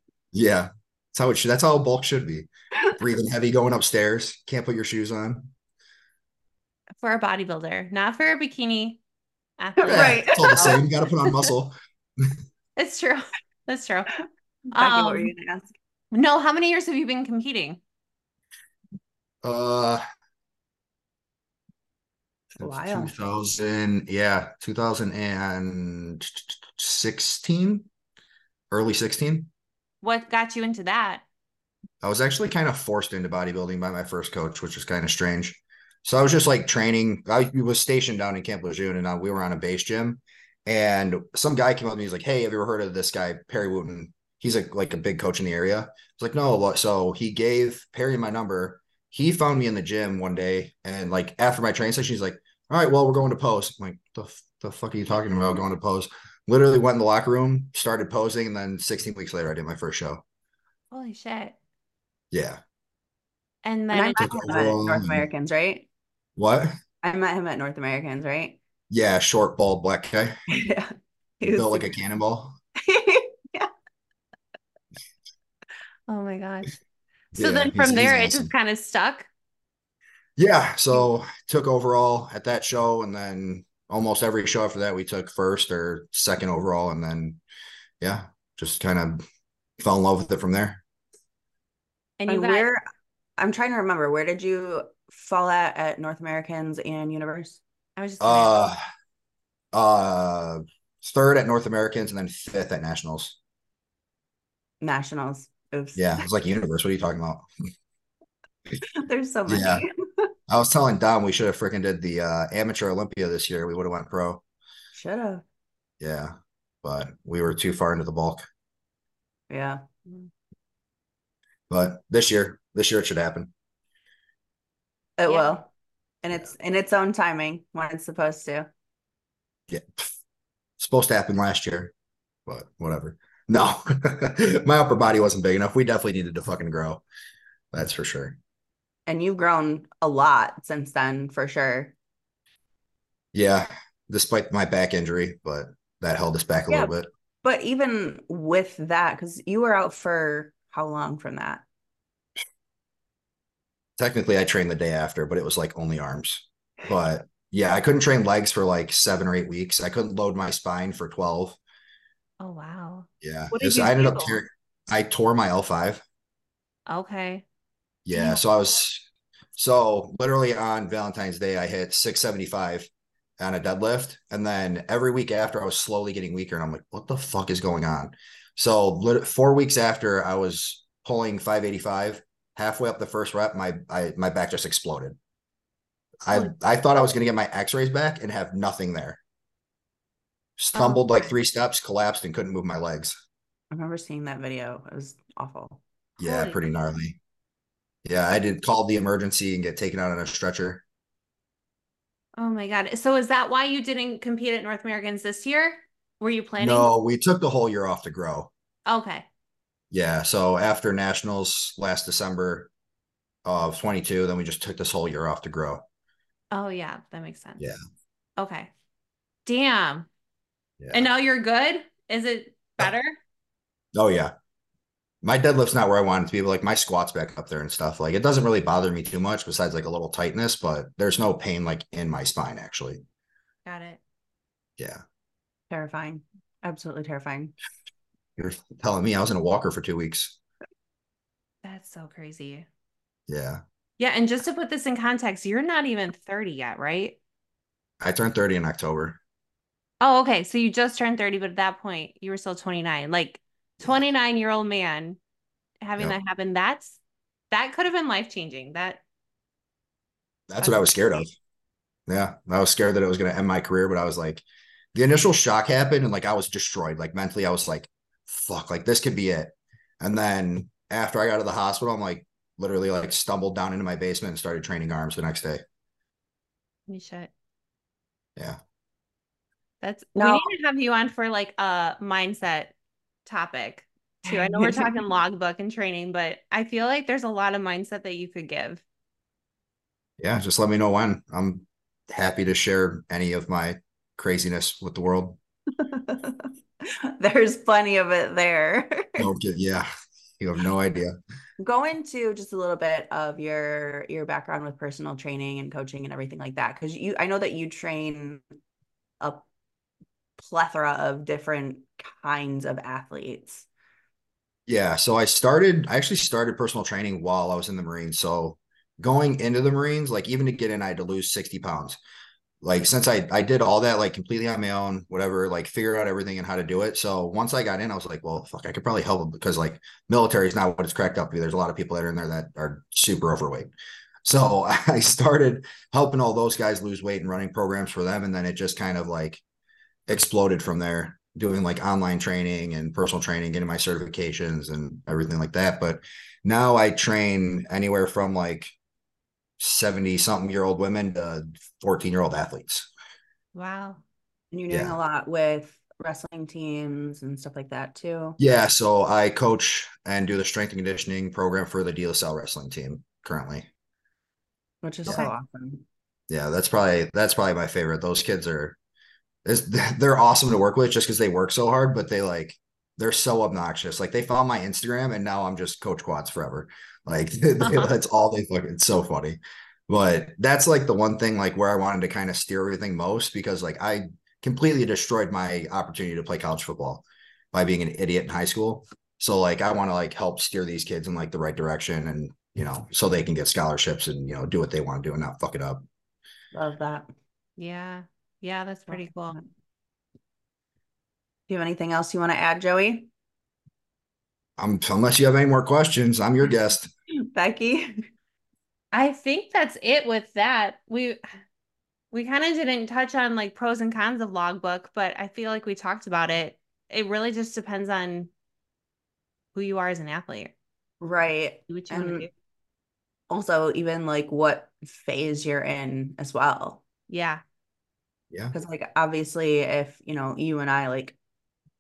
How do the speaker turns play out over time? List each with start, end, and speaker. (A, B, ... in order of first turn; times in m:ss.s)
0:00.3-0:05.5 A
0:07.0-0:09.0 B
0:09.6-0:10.8 B
0:09.8-0:10.8 C
0:09.8-0:12.4 A
0:12.8-0:14.1 B
0:14.7-0:15.3 B
0:14.8-0:15.7 C
0:16.1-0:17.8 B
0:19.4-0:20.0 A
0:22.6-0:23.2 C
0:22.6-0:27.9 A
0:28.7-0:29.5 A
0:30.0-0:31.2 B
0:32.0-1:00.2 A
1:00.9-1:01.6 B
1:02.3-1:02.6 A
1:03.6-1:04.7 B
1:03.9-1:05.9 C
1:04.2-1:05.3 A
1:06.4-1:06.8 A
1:07.0-1:08.6 C
1:08.9-1:10.4 A
1:10.5-1:11.9 C
1:11.4-1:12.6 A
1:12.8-1:13.7 C
1:16.1-1:16.8 B
1:17.3-1:19.3 B
1:17.4-1:18.5 A
1:20.4-1:27.4 A
1:28.0-1:29.2 A
1:29.8-1:30.8 A
1:32.2-1:32.7 B
1:32.3-1:32.8 C
1:33.4-1:37.6 C
1:38.0-1:38.6 B
1:38.2-1:38.8 A
1:39.7-1:43.4 A
1:44.8-1:46.2 C
1:46.0-1:47.5 A
1:49.0-1:50.3 C
1:49.5-1:49.8 A
1:50.5-1:54.4 A
1:54.9-1:55.4 C
1:56.0-1:58.4 A
1:59.5-1:59.8 C
2:01.7-2:03.5 A
2:05.2-2:05.7 C
2:05.3-2:05.6 B
2:06.2-2:08.7 C
2:09.7-2:10.1 A
2:10.8-2:11.9 A
2:12.5-2:17.0 A
2:17.7-2:18.4 A
2:19.1-2:22.0 C
2:23.3-2:27.1 A
2:26.7-2:31.6 C
2:34.0-2:41.6 A
2:42.4-2:44.4 B
2:43.2-2:46.0 A
2:46.9-2:47.4 B
2:48.1-3:05.2 A
2:48.1-2:48.4 B
3:06.2-3:09.2 A
3:10.6-3:13.2 A
3:10.8-3:11.3 B
3:13.7-3:15.8 C
3:16.2-3:17.2 A
3:16.2-3:16.6 B
3:18.0-3:20.8 A
3:22.4-3:26.9 B
3:26.6-3:28.5 A
3:28.9-3:29.3 B
3:29.9-3:32.7 A
3:33.4-3:35.8 A
3:36.5-3:37.6 B
3:38.4-3:38.7 B
3:39.5-3:40.1 B
3:40.8-3:41.1 A
3:40.9-3:43.2 B
3:44.0-3:44.3 A
3:45.2-3:53.0 A
3:53.7-3:54.0 B
3:54.8-3:55.0 A
3:55.7-3:57.5 C
3:58.4-4:00.4 A
4:01.6-4:02.7 B
4:03.3-4:03.6 A
4:04.0-4:07.2 B
4:08.0-4:09.2 A
4:10.0-4:15.2 B
4:13.8-4:14.1 A
4:15.8-4:17.0 B
4:17.5-4:19.0 B
4:20.5-4:21.3 A
4:20.6-4:21.1 B
4:22.1-4:24.4 A
4:25.0-4:35.6 A
4:36.9-4:37.3 B
4:39.8-4:42.7 B
4:40.2-4:40.5 C
4:43.3-4:48.8 B
4:44.2-4:45.0 C
4:50.2-4:55.4 A
4:55.8-4:59.3 C
4:59.2-4:59.9 A
5:00.4-5:01.2 A
5:01.6-5:08.4 C
5:10.4-5:13.7 C
5:14.7-5:22.0 A
5:22.6-5:33.7 A
5:34.2-5:39.4 A
5:40.1-5:48.7 A
5:49.6-5:52.9 A
5:53.6-5:54.0 B
5:54.5-5:58.4 C
5:54.7-5:55.0 A
5:58.4-6:03.7 A
6:04.8-6:05.8 C
6:05.1-6:05.3 B
6:06.3-6:08.8 A
6:09.4-6:35.8 A
6:17.6-6:17.9 B
6:36.5-6:37.1 C
6:37.6-6:39.4 B
6:38.9-6:39.5 C
6:41.5-6:43.1 C
6:44.6-6:46.9 A
6:47.3-6:48.0 C
6:48.9-6:51.2 B
6:52.1-6:58.3 B
6:59.6-7:00.5 B
7:01.0-7:02.3 C
7:01.7-7:02.3 B
7:03.3-7:06.8 C
7:07.1-7:07.4 B
7:08.5-7:11.2 C